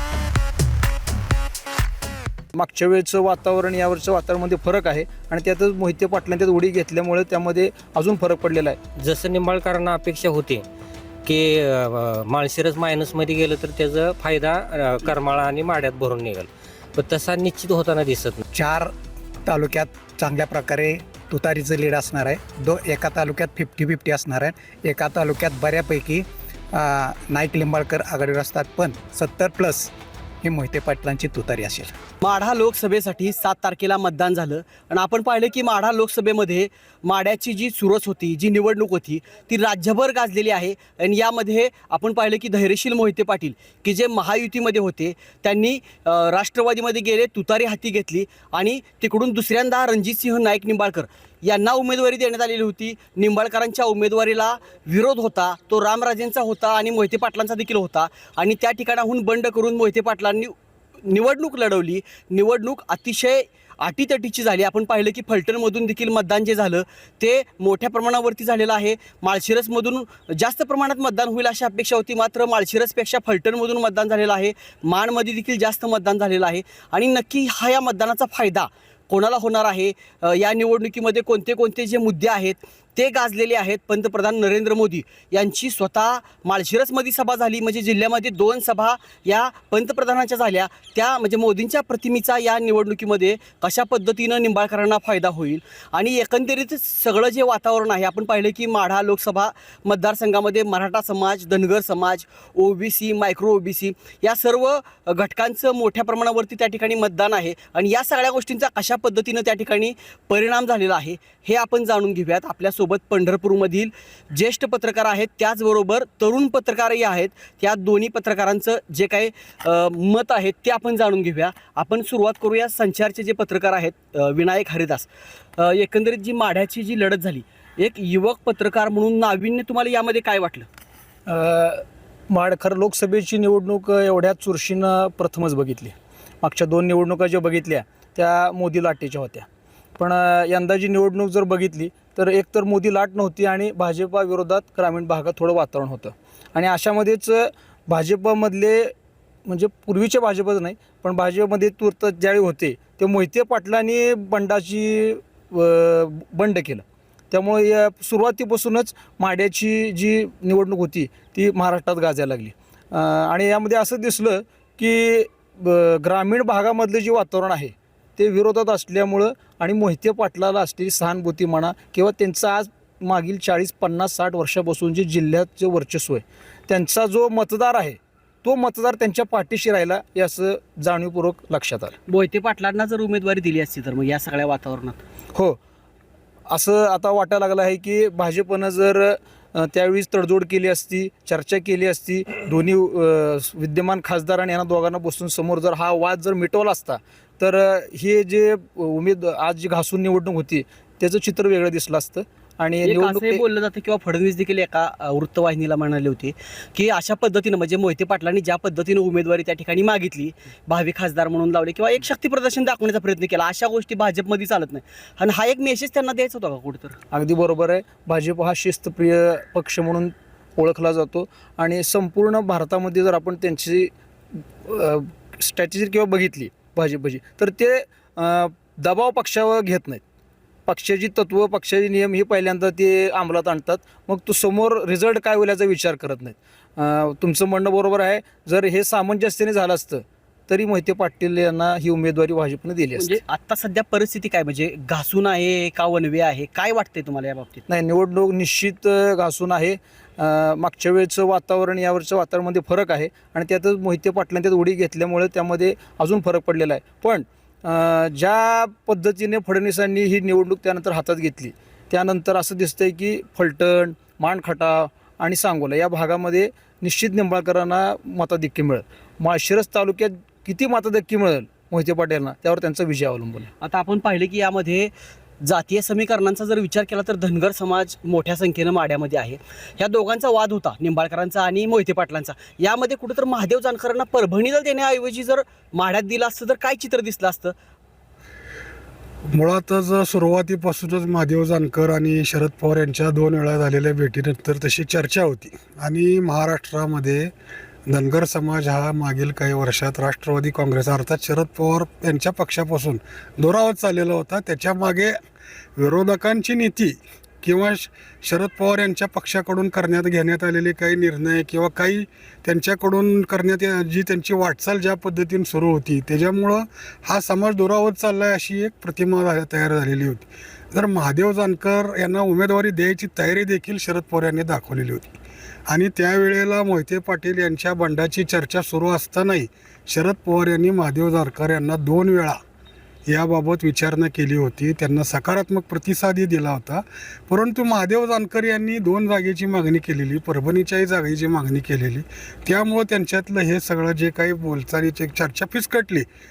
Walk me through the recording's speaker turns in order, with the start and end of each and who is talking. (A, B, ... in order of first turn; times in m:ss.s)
0:02.6-0:08.8 A
0:09.0-0:10.6 B
0:11.2-0:18.4 B
0:18.5-0:18.9 C
0:19.4-0:29.9 C
0:30.4-0:31.9 C
0:32.2-2:10.7 D
2:11.3-2:19.4 A
2:20.0-2:28.9 A
2:29.4-3:02.0 A
3:02.1-3:05.0 D
3:06.5-3:23.4 A
3:22.8-3:37.0 D
3:37.1-3:50.0 A
3:50.7-4:03.2 A
4:03.0-4:07.6 D
4:07.7-4:33.5 A
4:33.6-4:34.9 D
4:35.4-4:47.5 D
4:49.3-4:57.3 E
4:57.9-5:05.2 E
5:05.8-5:25.1 E
5:25.7-5:32.4 E
5:33.1-5:46.1 E